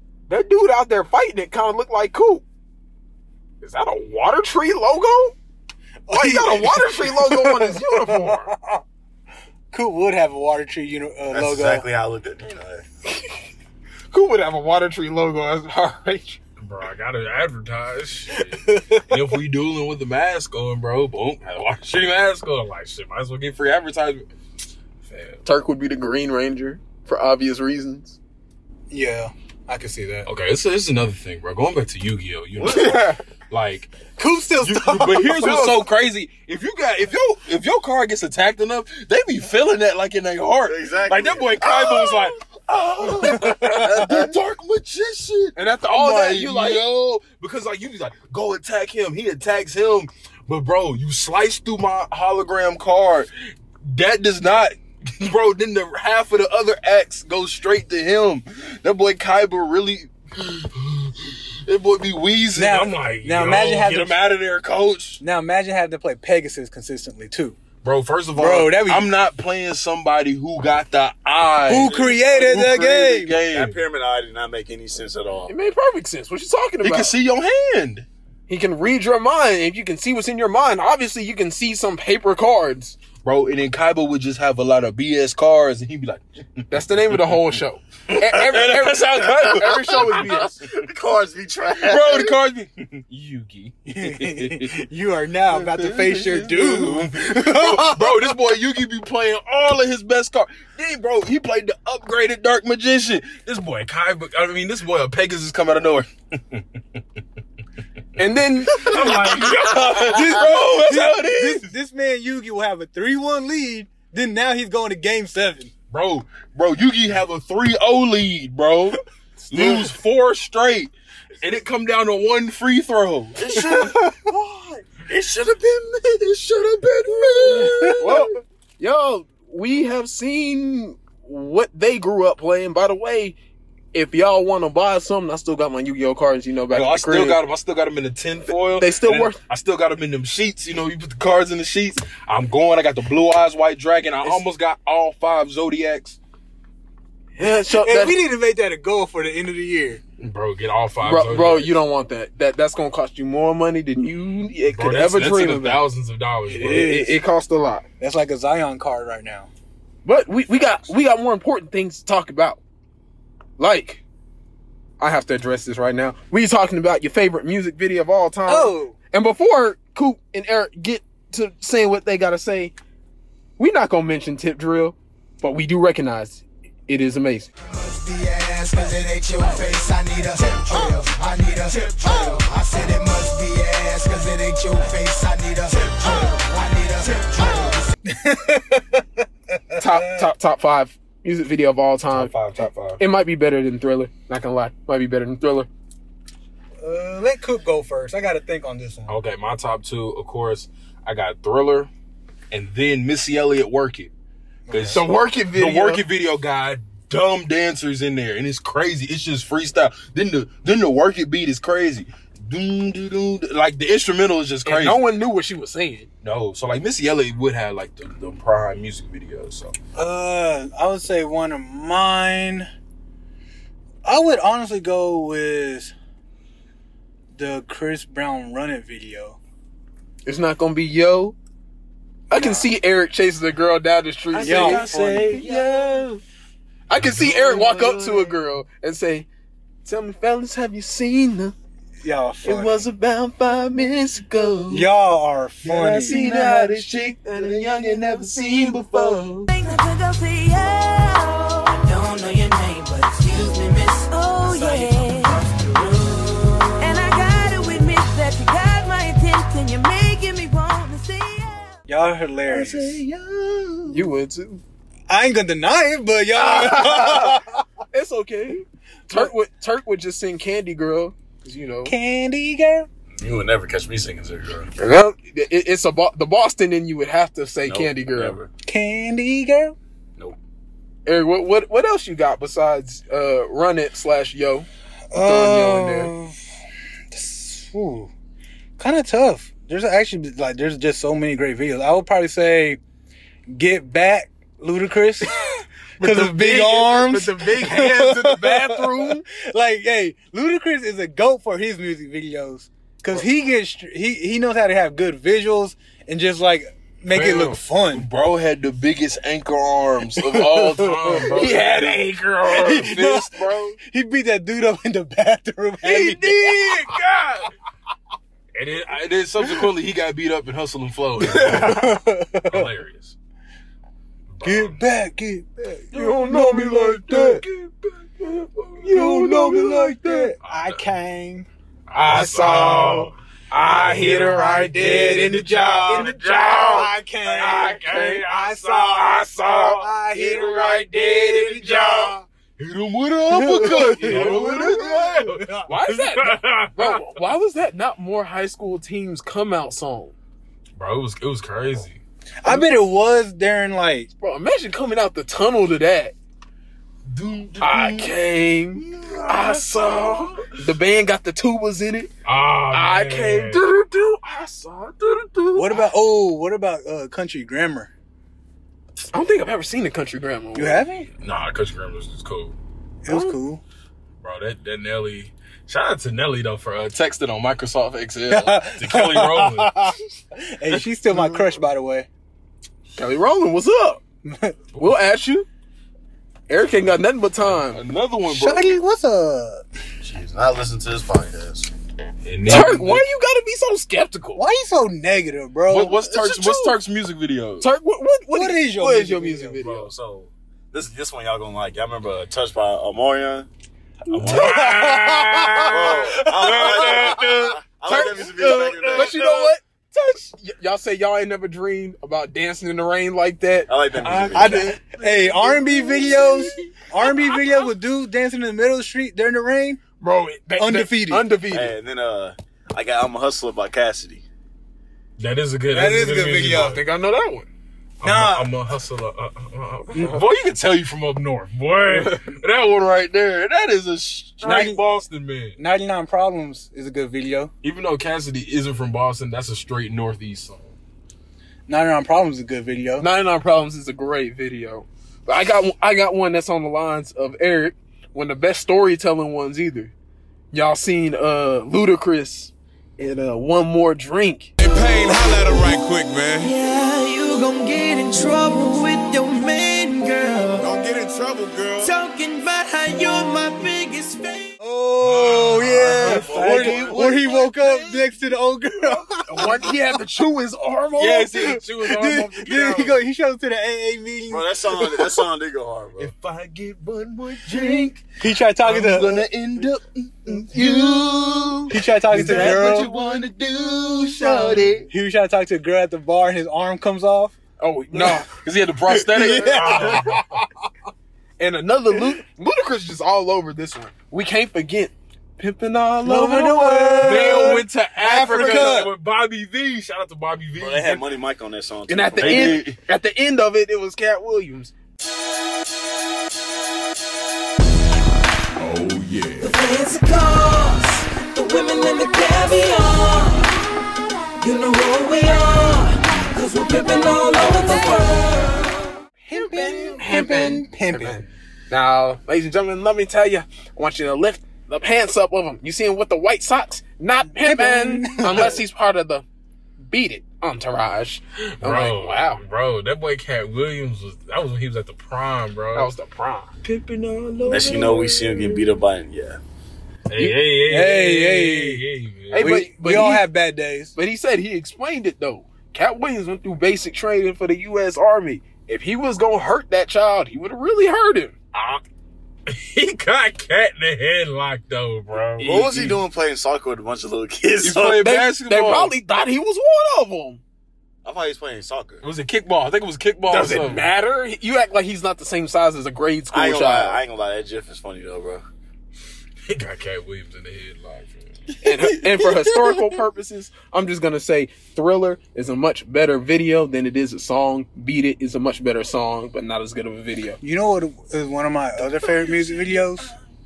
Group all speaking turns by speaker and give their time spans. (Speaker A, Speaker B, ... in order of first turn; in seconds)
Speaker A: 0.3-2.4, 3.6-5.3, 6.1-8.5, 14.1-16.4, 25.4-28.2, 32.6-33.2, 35.4-35.8, 45.6-46.9, 75.5-77.2, 78.5-83.0, 86.7-90.6, 108.2-109.3, 119.5-119.9, 128.0-133.4, 133.9-137.4, 138.8-139.4, 147.4-148.2, 151.0-155.8, 156.5-157.9, 160.1-162.6, 163.6-164.0, 165.0-172.7, 173.6-177.5, 189.8-192.3, 193.0-195.7, 204.9-206.1, 214.7-216.1, 230.2-231.3, 232.3-236.0, 236.9-239.3, 239.8-241.6, 242.4-244.9, 245.9-249.4, 263.9-264.6, 266.3-267.4, 267.9-271.9, 274.8-278.4, 281.1-286.1, 296.0-299.2, 311.2-312.9, 325.9-327.4, 328.8-330.3, 331.9-342.1, 343.6-344.8, 345.7-350.1, 354.2-356.1, 357.6-362.1, 362.7-365.9, 369.1-370.9, 373.1-373.4, 383.0-384.0, 384.8-385.5, 386.5-387.8, 392.5-394.4, 396.1-396.8, 397.6-399.9, 407.9-414.1, 420.0-421.8, 426.4-427.5, 431.9-432.3, 443.0-449.9, 450.5-454.5, 465.8-467.0, 469.3-471.3, 482.2-482.6, 487.6-488.3, 491.4-497.6, 501.9-504.7, 519.3-529.2, 529.9-532.4, 535.8-536.5, 542.3-543.3, 544.0-551.4, 558.0-560.4, 563.3-567.0, 571.6-580.4
Speaker B: 6.1-8.8, 9.7-11.9, 18.6-19.0, 28.9-30.3, 34.2-35.8, 62.5-64.2, 65.2-67.6, 68.4-69.1, 71.7-73.4, 93.9-98.4, 109.7-115.7, 123.8-124.1, 127.5-128.0, 147.7-150.0, 156.5-157.2, 158.0-159.5, 168.5-169.0, 188.1-190.3, 196.8-199.2, 204.7-205.0, 219.9-222.7, 224.1-225.9, 227.3-229.4, 232.3-232.7, 234.4-235.4, 242.0-242.9, 244.7-246.2, 261.9-263.0, 265.1-267.6, 271.9-272.9, 278.6-279.8, 285.1-286.4, 287.1-288.1, 288.8-292.8, 293.5-295.3, 296.0-308.1, 310.2-311.4, 312.5-316.9, 321.3-322.7, 324.4-327.0, 328.9-331.5, 336.7-342.2, 343.3-345.7, 352.4-354.1, 365.5-367.9, 370.6-371.1, 373.1-373.6, 378.3-382.1, 384.3-384.6, 388.3-389.6, 394.4-396.1, 398.3-399.6, 404.2-407.4, 414.3-419.8, 420.6-421.3, 425.7-426.8, 428.0-428.5, 429.9-430.2, 434.4-434.8, 435.6-437.5, 441.7-443.1, 464.6-469.8, 471.3-475.2, 478.2-479.3, 480.5-480.9, 481.7-482.9, 484.2-487.4, 487.9-488.2, 488.9-490.4, 496.0-498.9, 519.2-521.2, 527.3-528.6, 540.6-541.8, 542.4-544.0, 580.4-583.1
Speaker C: 11.3-12.8, 40.7-42.3, 71.8-72.2, 73.5-75.5, 88.2-92.4, 108.9-109.6, 123.4-126.2, 273.2-274.7, 277.7-278.5, 390.0-391.7, 399.6-403.5, 404.1-404.6, 405.7-409.4, 413.7-414.7, 421.5-424.2, 474.3-476.1, 500.6-502.6, 537.5-539.4, 555.4-558.1, 561.0-562.0, 566.3-568.5
Speaker D: 16.6-24.3, 25.1-25.4, 30.3-34.0, 34.6-53.3, 53.8-65.2, 67.8-73.8, 76.8-78.1, 83.2-87.6, 88.2-90.5, 91.8-94.7, 95.5-107.0, 108.7-111.7, 115.9-119.0, 119.5-123.6, 126.1-128.3, 136.7-146.2, 150.2-151.8, 154.7-157.0, 192.1-193.0, 199.1-201.9, 202.5-204.1, 204.7-215.0, 216.2-219.7, 234.3-236.2, 236.9-238.4, 245.6-249.5, 262.5-264.0, 307.1-313.8, 315.8-317.4, 318.6-323.2, 324.3-324.8, 326.0-328.9, 330.4-330.9, 331.9-347.2, 350.8-352.6, 357.1-360.6, 362.2-363.7, 371.2-372.6, 374.2-379.9, 380.7-381.6, 384.7-385.0, 387.4-388.7, 392.2-393.1, 395.7-397.7, 404.1-409.5, 414.0-416.5, 425.2-426.8, 428.0-435.6, 437.6-440.8, 465.0-468.1, 471.0-473.0, 476.0-478.1, 478.6-484.9, 488.3-490.4, 497.0-501.2, 502.2-502.8, 508.6-509.5, 531.6-535.9, 536.6-538.7, 540.1-542.7, 551.5-551.8, 552.5-556.0, 557.6-559.0, 562.0-563.9, 569.5-571.4
Speaker E: 177.7-187.9
Speaker F: 249.5-261.8, 455.2-455.7, 456.4-460.7, 461.8-464.5, 509.4-513.6, 514.4-518.9
Speaker G: 454.6-456.5, 460.6-461.9